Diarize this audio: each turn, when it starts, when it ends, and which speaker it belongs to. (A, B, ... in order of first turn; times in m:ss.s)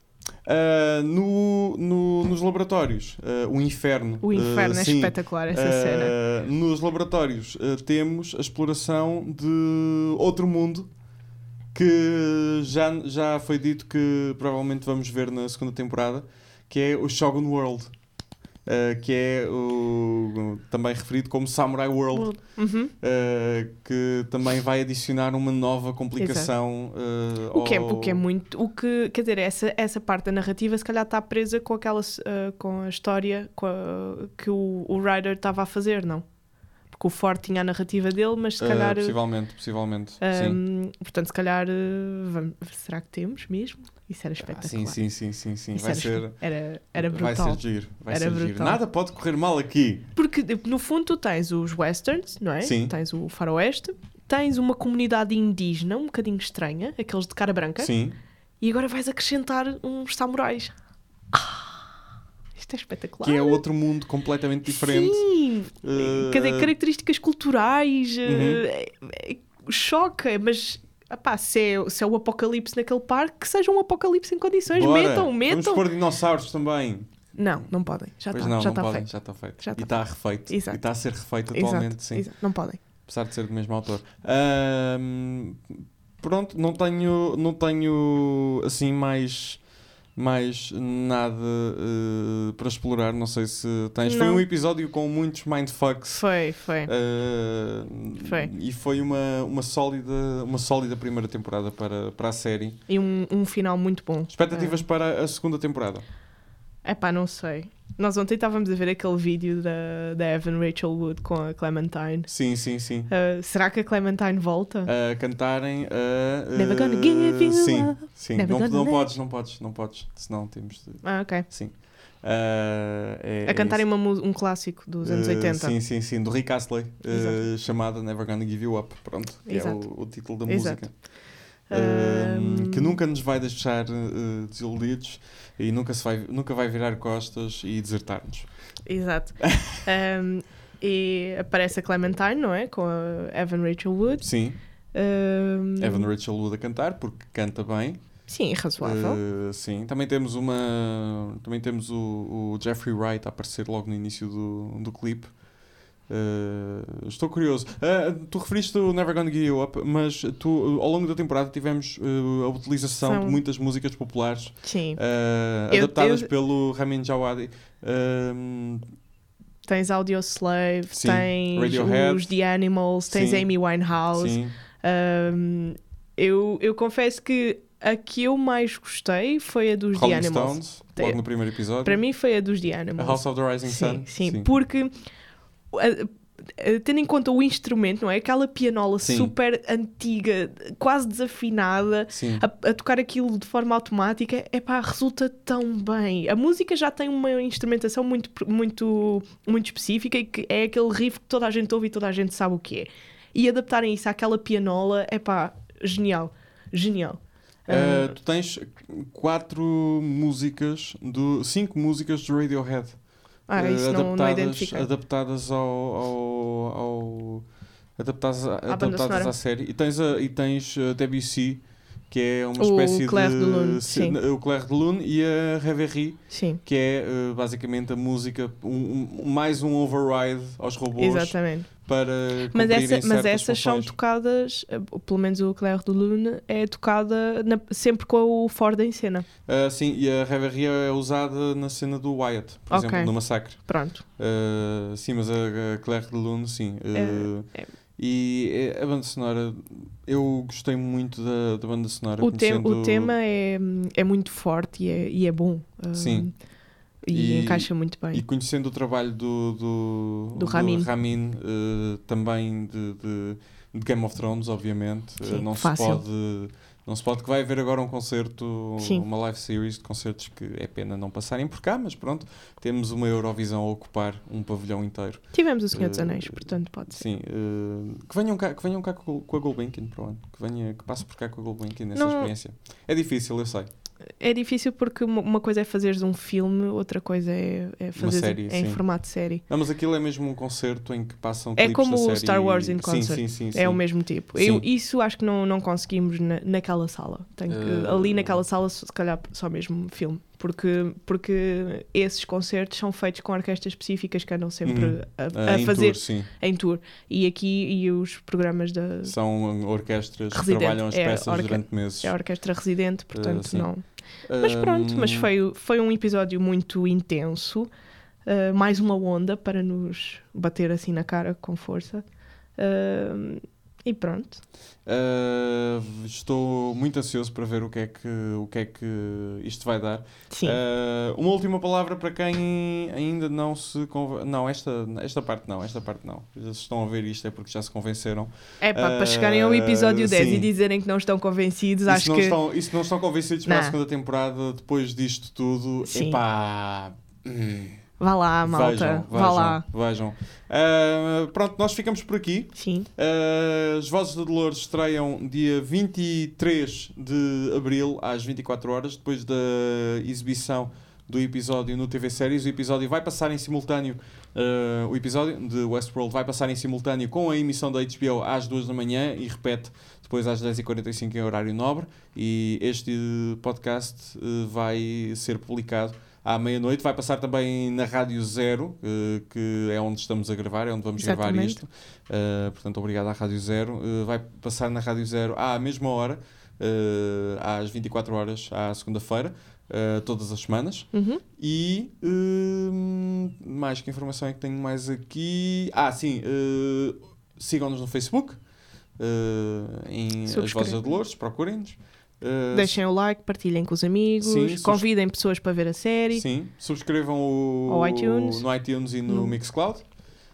0:00.4-0:10.9 A
0:04.2-0:06.1 B
0:11.7-0:17.9 A
0:18.6-0:22.4 A
0:22.1-0:22.9 B
0:23.0-0:28.2 A
0:26.2-0:26.5 B
0:27.5-0:36.2 B
0:36.9-0:39.1 B
0:38.6-0:40.6 A
0:40.2-0:45.0 B
0:44.4-0:46.4 A
0:45.7-0:48.8 B
0:46.9-0:50.1 A
0:50.2-0:57.9 B
0:52.6-0:52.9 A
0:57.8-0:58.2 A
0:58.6-1:00.7 B
1:01.3-1:01.7 B
1:02.6-1:03.6 B
1:03.2-1:05.2 A
1:04.7-1:15.9 B
1:05.8-1:06.7 A
1:08.2-1:08.6 A
1:14.7-1:17.1 A
1:17.3-1:19.9 B
1:18.3-1:22.3 A
1:20.5-1:20.8 B
1:21.5-1:22.8 B
1:23.0-1:29.6 A
1:30.2-1:36.3 A
1:34.0-1:34.4 B
1:36.1-1:36.9 B
1:36.8-1:42.8 A
1:38.2-1:38.5 B
1:42.9-1:44.8 B
1:44.3-1:46.0 A
1:46.8-1:52.3 B
1:52.3-1:53.1 A
1:53.1-1:54.9 B
1:54.8-2:03.8 A
1:56.5-1:59.1 B
2:01.0-2:01.4 B
2:03.4-2:05.7 B
2:05.0-2:11.0 A
2:07.1-2:07.4 B
2:09.4-2:09.9 B
2:10.4-2:10.9 B
2:11.7-2:13.0 B
2:11.7-2:18.5 A
2:18.8-2:24.2 B
2:19.4-2:19.8 A
2:24.2-2:24.6 A
2:24.9-2:26.1 B
2:25.8-2:28.0 A
2:28.3-2:29.2 B
2:28.8-2:35.3 A
2:36.1-2:48.8 A
2:43.0-2:43.4 B
2:44.6-2:45.0 B
2:45.7-2:46.3 B
2:49.7-3:01.2 B
2:50.9-2:52.3 A
2:53.1-2:53.5 A
2:54.1-2:54.5 A
2:59.9-3:02.0 A
3:01.8-3:04.9 B
3:03.0-3:04.5 A
3:05.7-3:28.1 B
3:09.0-3:09.3 A
3:12.1-3:12.4 A
3:27.7-3:33.0 A
3:33.5-3:34.9 B
3:33.5-3:37.4 A
3:38.0-3:53.9 A
3:38.7-3:39.3 B
3:42.6-3:44.2 B
3:46.3-3:46.6 B
3:51.0-3:51.7 B
3:52.5-3:59.2 B
3:59.5-4:03.6 A
4:02.7-4:04.0 B
4:04.2-4:13.1 A
4:06.9-4:07.7 B
4:12.2-4:16.3 B
4:15.9-4:16.3 A
4:17.0-4:18.2 B
4:17.1-4:43.7 A
4:20.3-4:20.9 B
4:25.2-4:26.0 B
4:28.8-4:29.0 B
4:35.3-4:37.0 B
4:42.0-4:42.3 B
4:44.2-4:49.4 B
4:48.0-4:48.8 A
4:49.5-4:53.8 A
4:51.6-5:09.1 B
4:54.3-4:54.6 A
4:57.5-4:58.4 A
5:04.6-5:06.3 A
5:09.0-5:12.2 A
5:10.3-5:13.8 B
5:13.1-5:13.7 A
5:14.3-5:15.3 A
5:14.4-5:17.7 B
5:18.2-5:22.0 B
5:22.6-5:24.4 B
5:24.8-5:40.5 A
5:30.3-5:30.6 B
5:38.6-5:42.4 B
5:41.9-5:47.8 A
5:43.4-5:43.7 B
5:45.8-5:46.2 B
5:48.0-5:49.6 B
5:48.4-6:38.4 A
5:52.6-5:52.9 B
6:21.0-6:21.6 B
6:30.9-6:31.2 B
6:39.0-6:42.8 A
6:40.3-6:40.8 B
6:42.5-6:46.2 B
6:44.2-6:44.8 A
6:46.1-6:49.8 A
6:47.7-6:48.4 B
6:49.1-6:49.3 B